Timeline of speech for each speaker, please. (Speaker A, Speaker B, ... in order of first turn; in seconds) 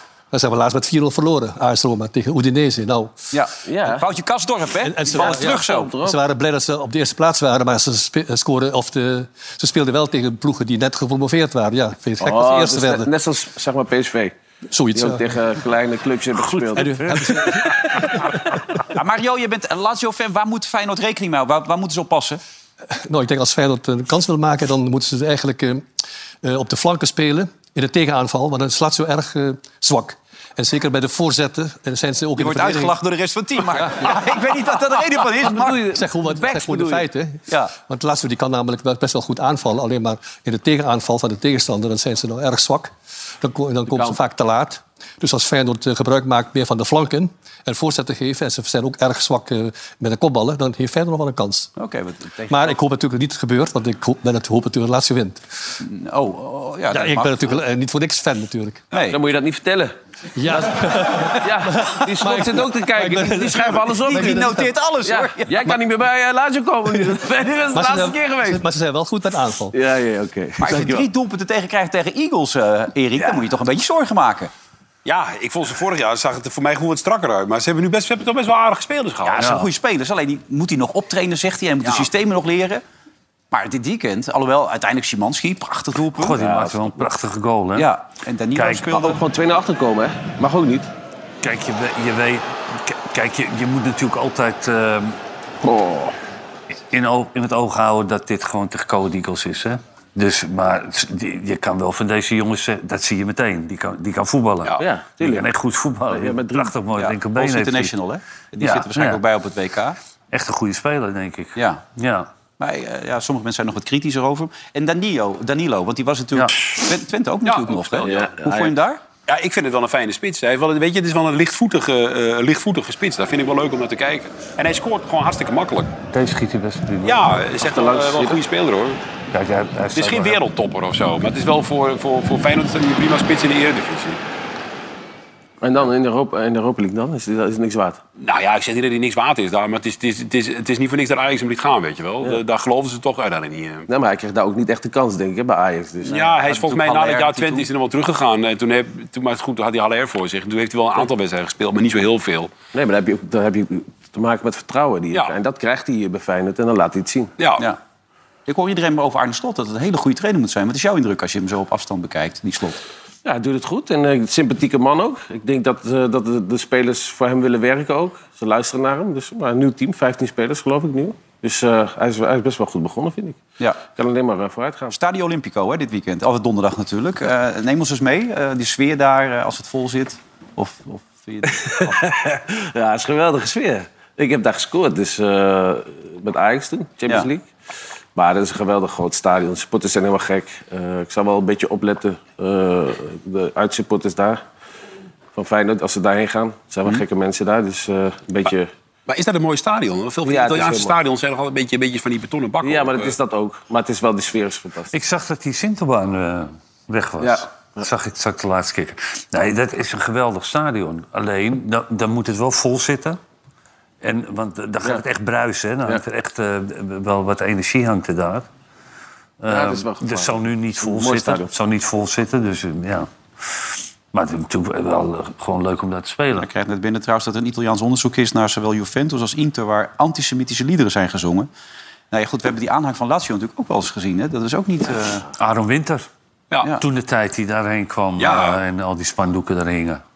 Speaker A: 0.3-3.1, 4.8-13.1, 14.7-15.4, 16.8-18.2, 23.0-25.8, 26.4-33.0, 35.9-51.7, 52.5-55.4, 56.9-58.9, 60.4-64.7, 67.7-69.8
Speaker B: 3.3-5.9, 18.9-22.4, 32.4-35.8, 37.5-37.7, 51.8-52.8, 55.8-57.6, 58.9-59.2, 63.6-65.7, 70.6-74.5, 79.2-82.8, 83.5-86.4, 87.8-89.2, 107.0-110.0, 111.6-111.8, 112.6-119.0, 146.4-147.7, 158.5-162.8, 174.9-182.0, 226.4-231.5, 232.1-235.3
Speaker C: 3.7-4.0, 5.1-6.2, 12.2-14.3, 14.9-18.1, 35.4-37.1, 43.9-44.2, 59.0-60.0, 60.5-64.5, 65.0-68.6, 69.7-71.1, 86.4-87.0, 88.9-90.9, 95.6-96.2, 104.8-105.5, 106.1-106.7, 118.0-118.7, 127.6-128.4, 135.6-138.0, 143.9-146.3, 152.7-157.3, 163.2-174.9, 181.5-187.5, 188.2-194.4, 195.3-198.7, 200.2-200.9, 202.6-204.9, 207.2-207.9, 219.5-221.5
Speaker D: 16.4-17.5, 79.4-79.7, 86.0-87.9, 88.5-89.0, 91.4-95.2, 96.9-107.9, 108.6-109.2, 110.3-112.3, 126.1-127.3, 129.3-130.4, 204.9-213.2, 214.0-218.5, 219.4-226.5, 235.4-236.1, 236.7-240.0
Speaker E: 75.0-79.4, 117.5-118.2, 119.3-125.9, 127.0-129.0, 129.9-134.2, 138.2-143.9, 146.1-152.5, 199.1-203.2, 238.2-238.6